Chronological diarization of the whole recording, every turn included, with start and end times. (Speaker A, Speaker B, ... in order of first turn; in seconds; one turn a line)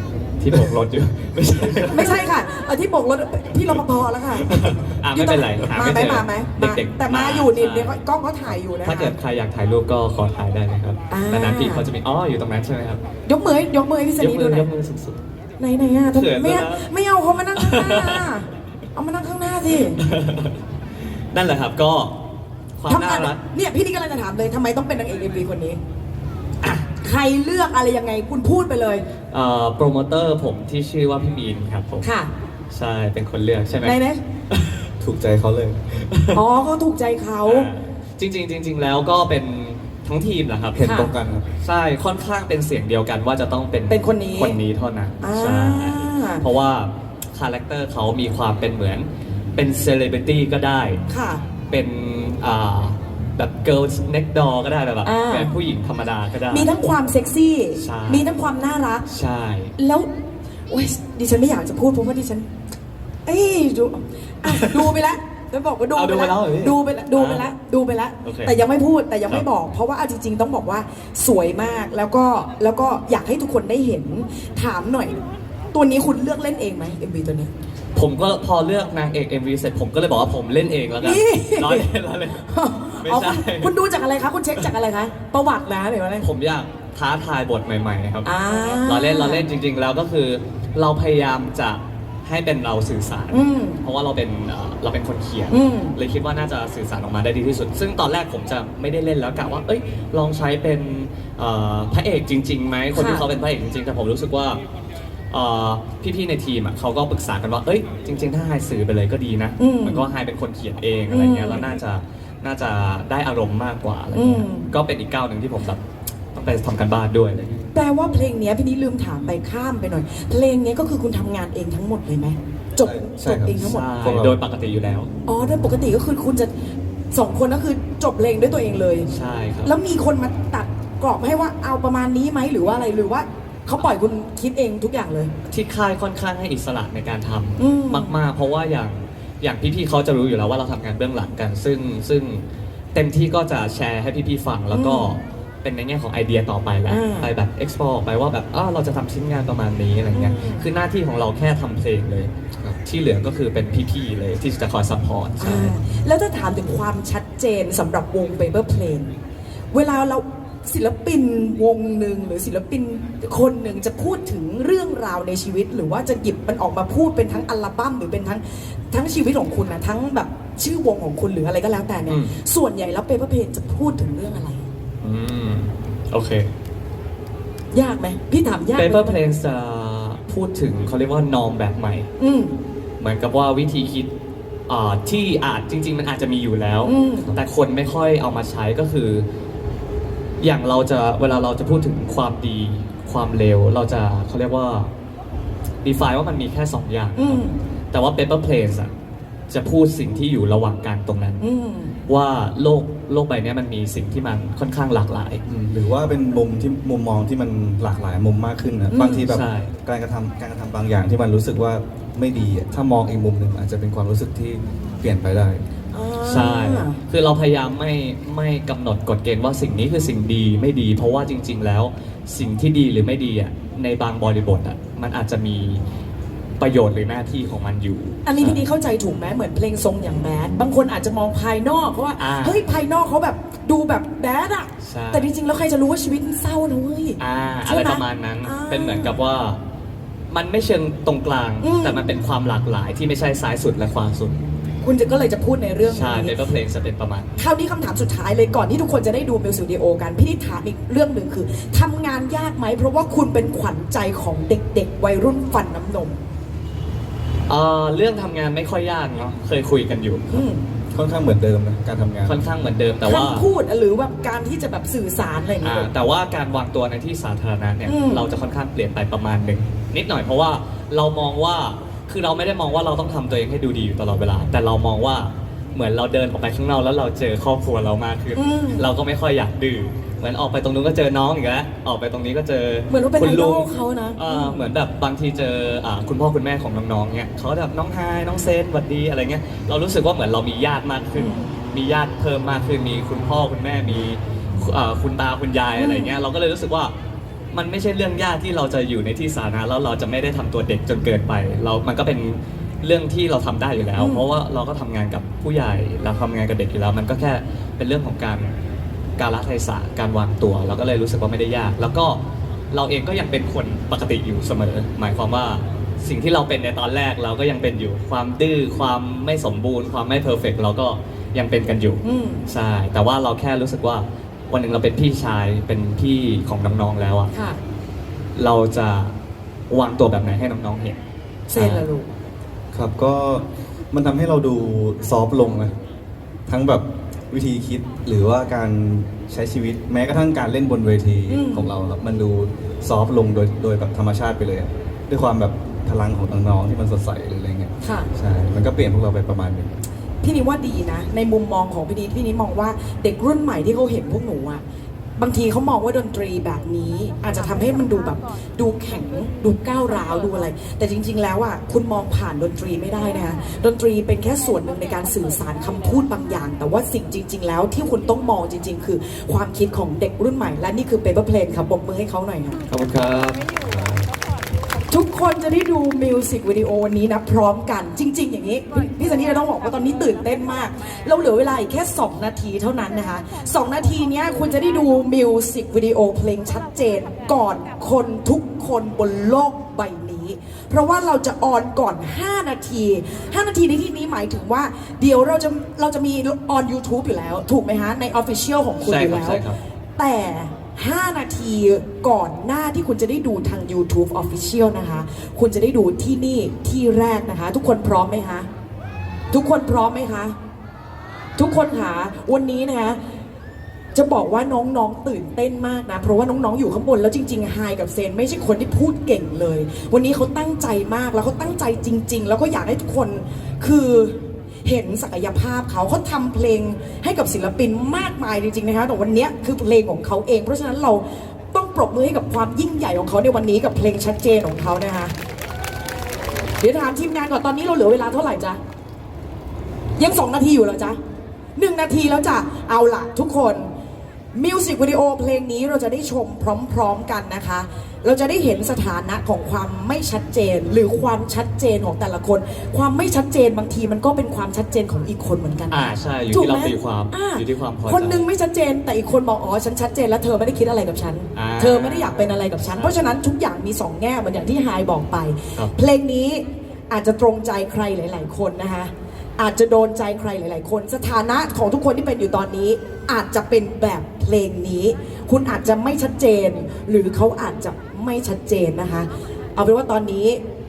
Speaker A: 0.4-2.2
Speaker B: 1.9-9.1
Speaker A: 4.4-13.0
Speaker B: 11.1-11.8
Speaker B: 13.2-14.7
Speaker A: 14.2-15.2
Speaker B: 15.6-20.0
Speaker A: 16.1-16.9
Speaker A: 17.6-18.4
Speaker A: 19.9-20.6
Speaker A: 21.3-22.1
Speaker A: 22.8-23.4
Speaker B: 22.9-25.8
Speaker A: 26.6-26.9
Speaker B: 27.0-29.0
Speaker A: 29.3-32.1
Speaker B: 32.0-32.3
Speaker A: 32.7-34.0
Speaker B: 33.8-34.2
Speaker A: 34.5-34.9
Speaker C: 35.0-35.9
Speaker A: 36.0-36.4
Speaker B: 36.3-37.7
Speaker A: 37.4-41.0
Speaker C: 40.8-41.5
Speaker B: 40.8-41.1
Speaker A: 41.6-51.0
Speaker B: 43.9-44.6
Speaker B: 45.2-46.4
Speaker B: 51.1-51.4
Speaker A: 51.7-56.7
Speaker B: 55.0-55.5
Speaker B: 56.5-59.0
Speaker A: 57.8-58.3
Speaker A: 59.1-59.7
Speaker B: 59.8-60.1
Speaker B: 60.7-62.5
Speaker B: 63.2-75.2
Speaker A: 64.5-64.9
Speaker A: 65.9-67.5
Speaker A: 68.2-68.6
Speaker B: 75.7-77.5
Speaker A: 77.9-83.7
Speaker B: 81.0-81.9
Speaker B: 82.5-86.3
Speaker A: 86.2-104.6
Speaker B: 88.2-89.5
Speaker B: 93.3-93.8
Speaker B: 95.5-96.0
Speaker B: 102.9-103.2
Speaker A: 105.3-115.8
Speaker B: 109.6-110.1
Speaker B: 111.1-111.7
Speaker B: 114.1-114.7
Speaker A: 116.3-117.6
Speaker B: 117.7-123.8
Speaker C: 122.8-124.4
Speaker A: 123.3-125.1
Speaker B: 125.3-126.5
Speaker B: 127.1-129.1
Speaker A: 129.1-129.7
Speaker B: 129.6-135.3
Speaker A: 135.5-152.3
Speaker B: 137.6-138.2
Speaker B: 144.7-145.1
Speaker B: 146.9-147.3
Speaker B: 150.1-150.7
Speaker A: 152.8-155.8
Speaker B: 155.4-159.1
Speaker B: 159.7-174.7
Speaker A: 172.1-172.3
Speaker A: 175.0-176.5
Speaker B: 177.7-179.2
Speaker A: 178.8-182.1
Speaker B: 182.2-182.5
Speaker A: 183.0-184.1
Speaker A: 184.7-189.2
Speaker B: 186.8-187.3
Speaker A: 190.4-194.9
Speaker A: 195.8-198.9
Speaker B: 197.2-197.6
Speaker A: 199.5-201.4
Speaker B: 201.4-201.9
Speaker A: 202.1-205.4
Speaker C: 205.4-215.6
Speaker B: 208.9-209.3
Speaker A: 208.9-209.7
Speaker B: 215.9-217.0
Speaker A: 216.2-225.8
Speaker A: 226.6-228.6
Speaker B: 228.2-239.2
Speaker A: 232.2-232.6
Speaker A: 234.8-235.3
Speaker A: 237.2-239.6
Speaker A: 240.3-244.4
Speaker B: 241.6-242.1
Speaker B: 244.8-246.4
Speaker A: 245.8-247.4
Speaker B: 247.4-256.2
Speaker A: 257.5-260.5
Speaker B: 260.3-260.6
Speaker C: 260.9-262.4
Speaker A: 262.2-263.5
Speaker B: 263.0-265.9
Speaker A: 265.6-296.9
Speaker B: 267.8-268.3
Speaker B: 278.3-278.9
Speaker B: 282.9-284.7
Speaker B: 291.1-291.5
Speaker B: 295.8-296.1
Speaker A: 297.5-308.5
Speaker B: 304.0-304.3
Speaker A: 309.2-312.2
Speaker A: 312.7-327.3
Speaker B: 322.0-322.4
Speaker B: 327.3-327.6
Speaker A: 328.4-329.1
Speaker A: 329.7-331.0
Speaker B: 331.5-332.1
Speaker A: 331.5-331.8
Speaker C: 332.7-335.7
Speaker C: 336.5-349.7
Speaker B: 341.3-341.7
Speaker B: 347.8-348.1
Speaker B: 350.2-354.6
Speaker B: 355.2-372.6
Speaker A: 372.7-373.5
Speaker C: 373.6-374.0
Speaker B: 374.9-399.4
Speaker A: 398.8-399.6
Speaker B: 400.0-408.5
Speaker B: 409.3-410.3
Speaker B: 411.4-413.0
Speaker B: 413.9-435.1
Speaker B: 436.6-438.6
Speaker B: 440.0-441.0
Speaker B: 441.6-443.7
Speaker B: 444.3-480.4
Speaker A: 455.7-458.2
Speaker A: 461.3-463.1